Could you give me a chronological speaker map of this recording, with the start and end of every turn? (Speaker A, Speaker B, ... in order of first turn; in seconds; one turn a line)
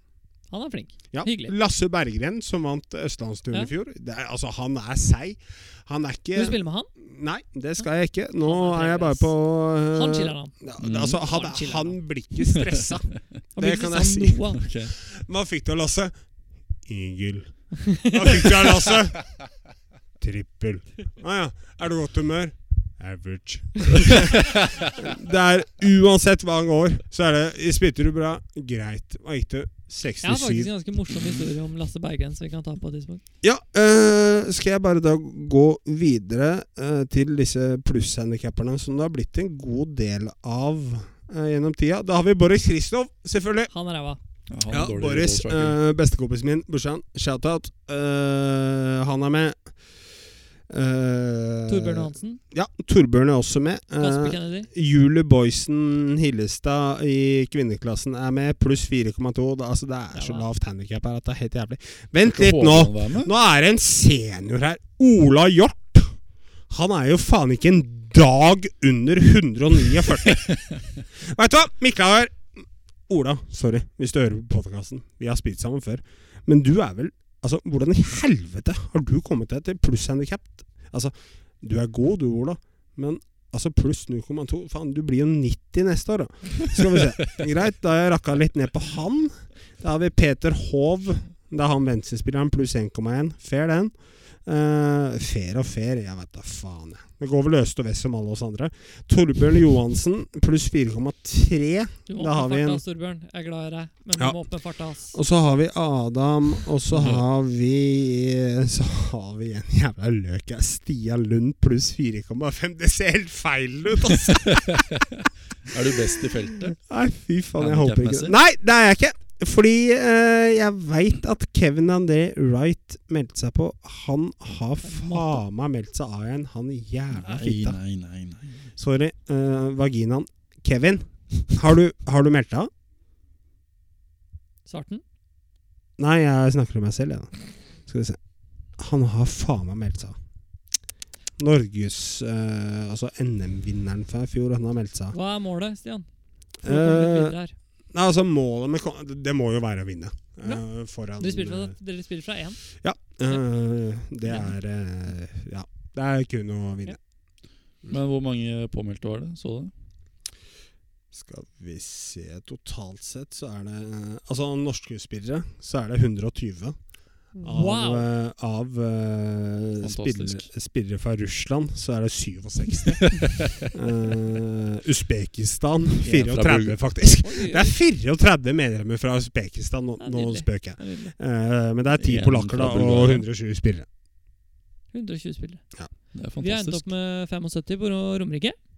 Speaker A: 0.5-1.6
Speaker B: 1.1-16.1
Speaker A: 6.3-6.9
Speaker A: 8.4-9.3
Speaker A: 9.9-10.5
Speaker C: 10.8-11.2
Speaker A: 11.2-12.0
Speaker C: 12.5-13.2
Speaker A: 13.6-14.6
Speaker C: 14.6-14.9
Speaker B: 16.9-19.3
Speaker A: 17.9-18.4
Speaker B: 20.2-30.7
Speaker C: 24.1-24.9
Speaker A: 30.2-33.2
Speaker B: 33.4-43.7
Speaker A: 43.7-44.2
Speaker C: 44.5-45.8
Speaker B: 44.7-49.7
Speaker B: 50.7-66.2
Speaker A: 51.7-52.4
Speaker A: 54.0-54.7
Speaker A: 60.1-60.5
Speaker C: 62.2-63.3
Speaker B: 66.7-70.6
Speaker C: 70.3-70.8
Speaker B: 71.2-72.5
Speaker B: 73.1-102.8
Speaker A: 102.1-105.2
Speaker B: 105.1-114.9
Speaker C: 106.9-107.2
Speaker C: 114.3-116.8
Speaker B: 116.2-127.8
Speaker C: 117.6-118.3
Speaker A: 124.8-125.4
Speaker C: 127.1-128.7
Speaker B: 128.8-132.7
Speaker A: 134.7-135.0
Speaker B: 136.0-138.2
Speaker B: 138.8-140.2
Speaker B: 141.4-145.2
Speaker A: 145.1-146.1
Speaker B: 146.6-147.4
Speaker A: 146.6-147.6
Speaker B: 147.9-151.7
Speaker A: 151.2-152.6
Speaker B: 152.8-157.0
Speaker C: 157.9-159.7
Speaker B: 161.1-166.8
Speaker B: 167.4-183.9
Speaker A: 167.5-168.1
Speaker C: 169.8-170.5
Speaker C: 172.9-173.7
Speaker C: 176.0-176.8
Speaker A: 177.2-177.7
Speaker A: 180.0-181.2
Speaker C: 182.0-183.3
Speaker A: 184.9-185.6
Speaker C: 186.1-186.8
Speaker A: 186.4-188.6